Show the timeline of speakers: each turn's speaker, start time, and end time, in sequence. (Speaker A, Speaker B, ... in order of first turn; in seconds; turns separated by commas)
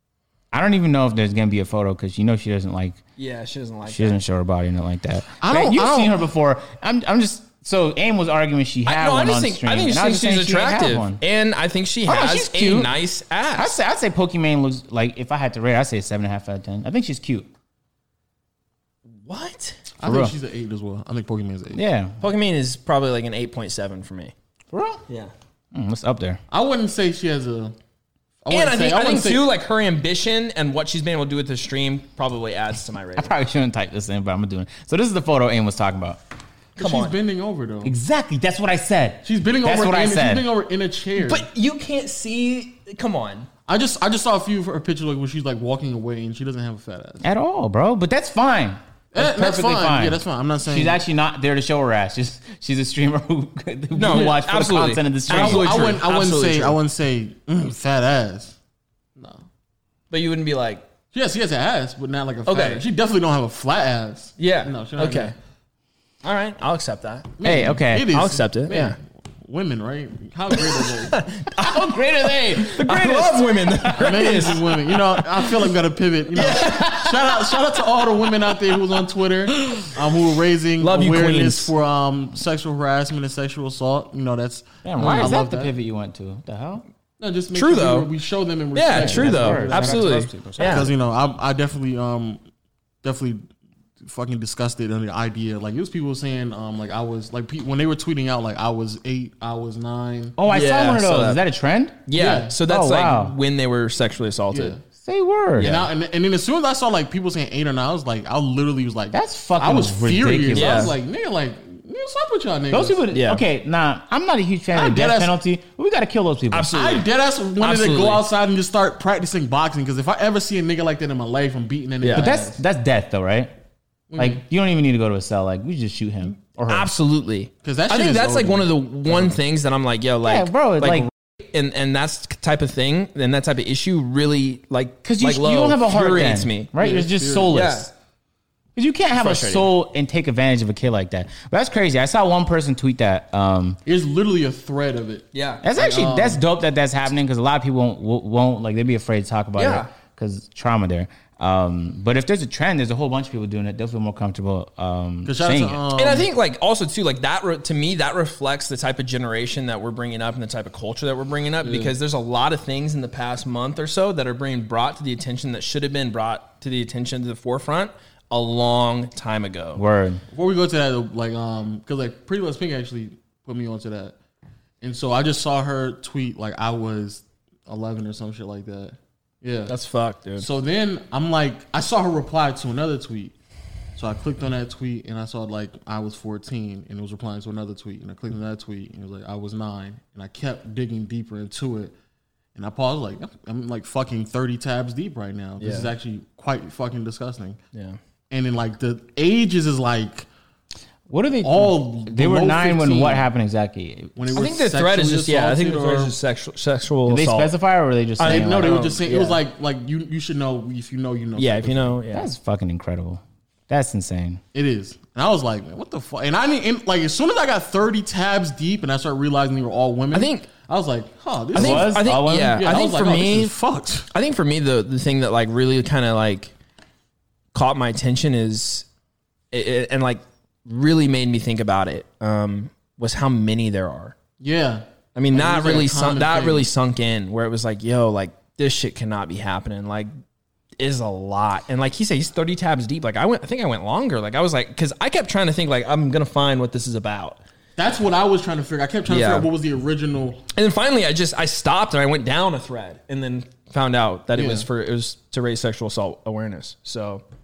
Speaker A: 0.5-3.0, Speaker B: 3.2-4.2, Speaker A: 3.9-11.2, Speaker C: 5.4-6.3, Speaker B: 8.9-13.8, Speaker A: 12.1-12.9, Speaker A: 13.6-17.5, Speaker B: 19.3-19.8, Speaker C: 20.0-21.8, Speaker A: 20.0-20.4, Speaker A: 21.7-22.2, Speaker B: 22.2-24.3, Speaker A: 24.7-25.0, Speaker B: 25.1-25.3, Speaker A: 25.7-26.4, Speaker C: 26.5-27.7, Speaker C: 28.4-29.5, Speaker B: 28.5-33.3, Speaker A: 33.2-36.2, Speaker B: 36.8-37.1, Speaker C: 36.8-38.0, Speaker A: 37.8-40.5, Speaker C: 39.2-41.5, Speaker B: 41.2-43.5, Speaker C: 43.7-47.2, Speaker A: 47.2-56.0, Speaker C: 49.1-51.0, Speaker B: 53.9-56.8, Speaker C: 54.1-54.4, Speaker C: 55.3-58.6, Speaker C: 59.2-59.4, Speaker B: 60.1-60.9, Speaker C: 61.1-65.4, Speaker B: 62.5-62.9, Speaker B: 64.4-65.3, Speaker B: 66.2-67.4, Speaker C: 67.4-71.2, Speaker A: 67.4-68.1, Speaker B: 68.1-69.0, Speaker B: 70.8-71.8, Speaker A: 71.5-74.5, Speaker B: 72.4-75.0, Speaker C: 74.0-85.7, Speaker B: 76.3-77.1, Speaker A: 76.4-77.6, Speaker B: 80.8-81.7, Speaker A: 84.8-86.8, Speaker B: 85.0-85.3, Speaker C: 87.2-92.4, Speaker B: 87.5-88.1, Speaker B: 88.7-90.9, Speaker A: 88.9-90.9, Speaker C: 93.0-93.5, Speaker C: 94.0-100.4, Speaker A: 100.4-102.0, Speaker B: 100.5-101.4, Speaker B: 102.1-104.8, Speaker C: 102.2-102.6, Speaker A: 102.7-103.3, Speaker C: 104.5-104.8, Speaker A: 105.0-105.8, Speaker B: 105.6-105.9, Speaker C: 105.6-113.0, Speaker A: 109.1-111.0, Speaker B: 110.5-110.9, Speaker A: 112.7-116.9, Speaker B: 113.1-113.4, Speaker C: 114.7-115.3, Speaker B: 116.5-117.0, Speaker C: 116.7-122.6, Speaker B: 117.6-118.3, Speaker B: 122.0-122.3, Speaker A: 122.1-123.5, Speaker C: 124.1-124.4, Speaker A: 124.2-126.9, Speaker B: 126.7-136.7, Speaker C: 127.6-129.4, Speaker A: 130.2-131.1, Speaker A: 135.0-137.9, Speaker C: 136.8-137.6, Speaker B: 137.5-137.9, Speaker A: 138.8-143.8, Speaker B: 139.2-139.7, Speaker C: 143.9-146.4, Speaker B: 145.3-145.6, Speaker A: 145.6-155.8, Speaker B: 149.6-149.9, Speaker C: 155.2-156.3, Speaker B: 156.0-169.8, Speaker C: 161.6-161.9, Speaker A: 169.8-170.2, Speaker C: 170.3-174.2, Speaker C: 174.8-179.7, Speaker B: 179.7-180.5, Speaker C: 180.4-183.3, Speaker C: 184.0-191.9, Speaker C: 192.6-197.6, Speaker B: 195.6-195.9, Speaker B: 197.7-198.0, Speaker C: 198.3-200.3, Speaker A: 201.1-204.3, Speaker C: 201.4-203.3, Speaker C: 204.2-206.2, Speaker B: 204.3-207.5, Speaker A: 207.1-208.8, Speaker B: 208.2-209.4, Speaker C: 208.2-212.0, Speaker B: 211.4-212.3, Speaker A: 212.1-214.4, Speaker C: 214.5-224.1, Speaker B: 220.1-220.5, Speaker A: 221.6-222.6, Speaker B: 221.6-223.5, Speaker B: 224.1-226.5, Speaker B: 227.5-228.9, Speaker B: 229.5-234.2, Speaker C: 234.4-236.7, Speaker B: 235.2-240.1, Speaker B: 240.8-247.4, Speaker C: 247.8-250.4, Speaker B: 249.1-249.5, Speaker B: 250.5-257.2, Speaker C: 254.4-254.7